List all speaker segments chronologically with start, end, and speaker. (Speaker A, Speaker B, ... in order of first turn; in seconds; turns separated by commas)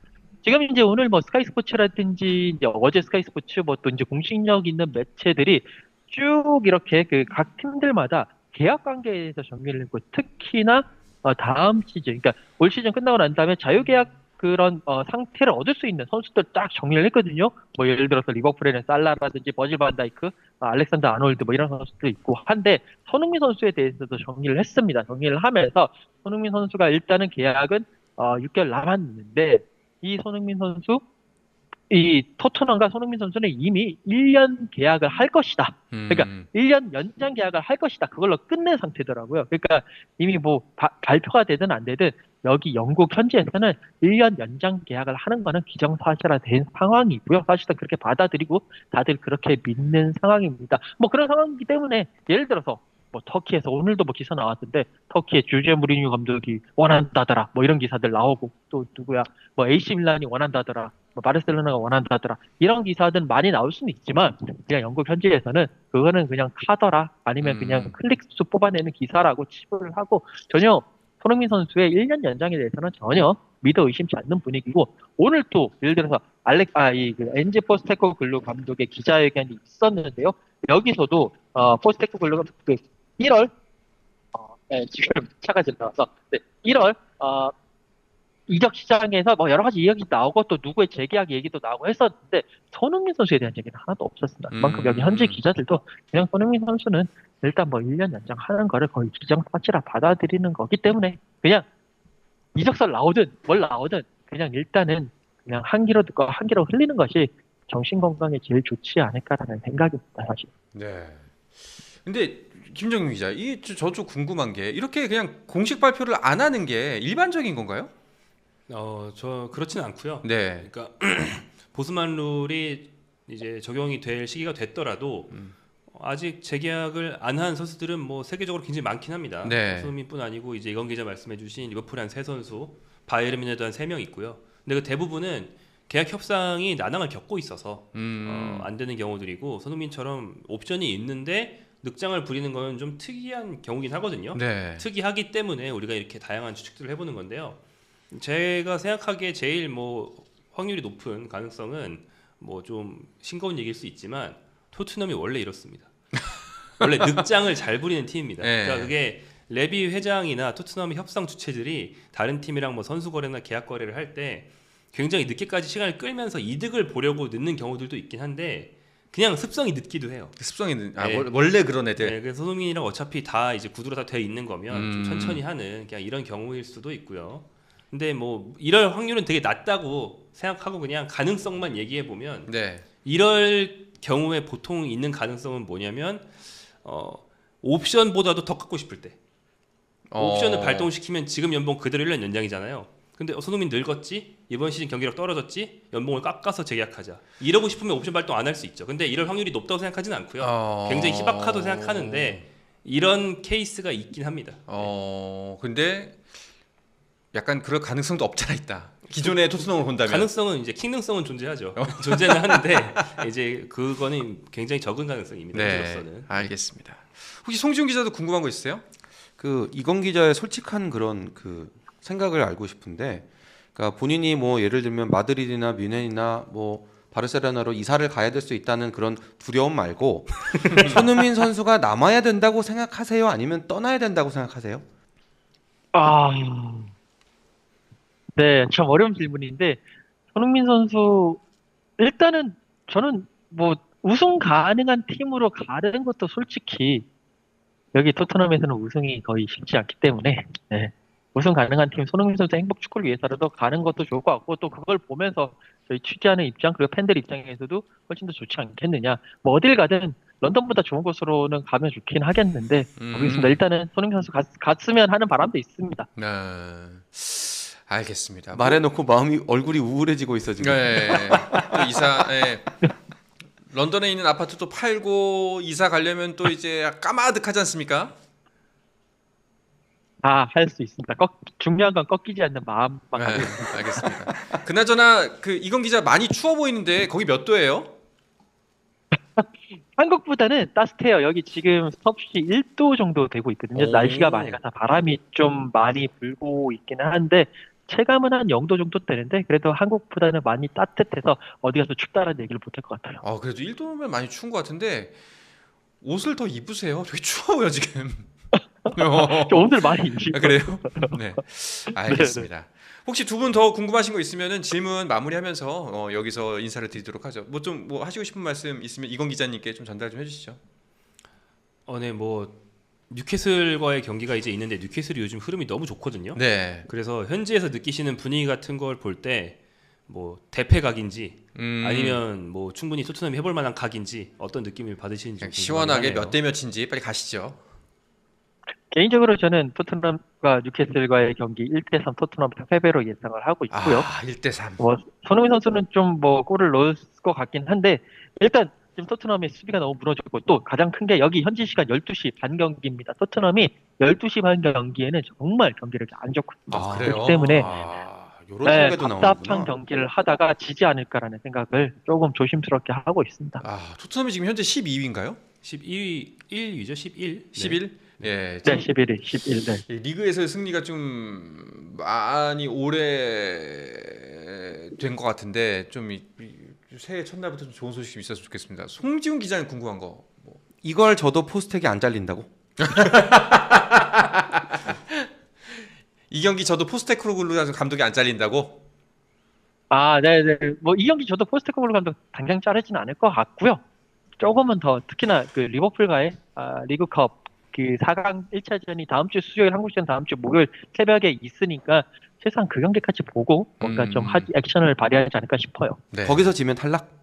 Speaker A: 0.4-31.0, Speaker A: 31.9-83.5, Speaker B: 35.9-36.5, Speaker B: 67.4-67.9, Speaker A: 84.3-87.5, Speaker A: 88.5-101.7, Speaker B: 94.5-95.4, Speaker A: 102.5-110.5, Speaker B: 110.7-111.2, Speaker B: 112.0-117.9, Speaker C: 118.7-147.6, Speaker B: 120.2-120.7, Speaker B: 129.4-129.9, Speaker B: 137.9-138.7, Speaker B: 144.3-144.8, Speaker C: 148.1-155.9, Speaker C: 156.8-170.4, Speaker B: 158.4-158.9, Speaker B: 170.4-172.1, Speaker C: 171.0-171.3, Speaker C: 172.0-189.2, Speaker B: 174.7-175.4, Speaker B: 182.5-182.8, Speaker B: 190.1-190.9, Speaker C: 190.2-204.9, Speaker B: 200.4-202.4, Speaker B: 204.7-206.2, Speaker B: 207.3-210.3, Speaker C: 209.1-209.5, Speaker C: 210.0-216.4, Speaker B: 211.8-213.2, Speaker B: 215.5-218.8, Speaker D: 219.4-234.8, Speaker B: 230.7-231.0, Speaker A: 235.9-236.9, Speaker A: 238.3-239.8, Speaker A: 240.3-241.4, Speaker A: 242.0-247.0, Speaker A: 247.9-266.1, Speaker B: 263.0-263.6, Speaker B: 266.2-268.8, Speaker D: 268.5-271.7, Speaker B: 270.6-272.6, Speaker B: 273.7-278.1, Speaker A: 280.2-284.1, Speaker B: 283.2-287.9, Speaker A: 289.1-303.2, Speaker B: 293.7-294.6, Speaker B: 303.2-305.1, Speaker B: 306.0-308.3, Speaker A: 308.9-311.1, Speaker B: 308.9-320.6, Speaker A: 311.9-312.5, Speaker C: 321.9-322.6, Speaker C: 323.1-336.4, Speaker B: 326.3-326.9, Speaker B: 331.5-332.2, Speaker B: 335.4-337.6, Speaker A: 338.9-344.1, Speaker B: 343.7-344.8, Speaker A: 344.8-357.7, Speaker B: 356.7-358.3, Speaker D: 356.7-359.7, Speaker A: 358.6-363.6, Speaker B: 363.6-365.4, Speaker C: 365.6-368.3, Speaker B: 367.5-368.9, Speaker A: 368.6-369.8, Speaker B: 369.9-380.6, Speaker D: 380.8-382.5, Speaker B: 382.8-388.8, Speaker A: 389.9-393.8, Speaker A: 394.4-406.0, Speaker B: 403.8-404.5, Speaker B: 406.1-406.5, Speaker D: 406.2-407.1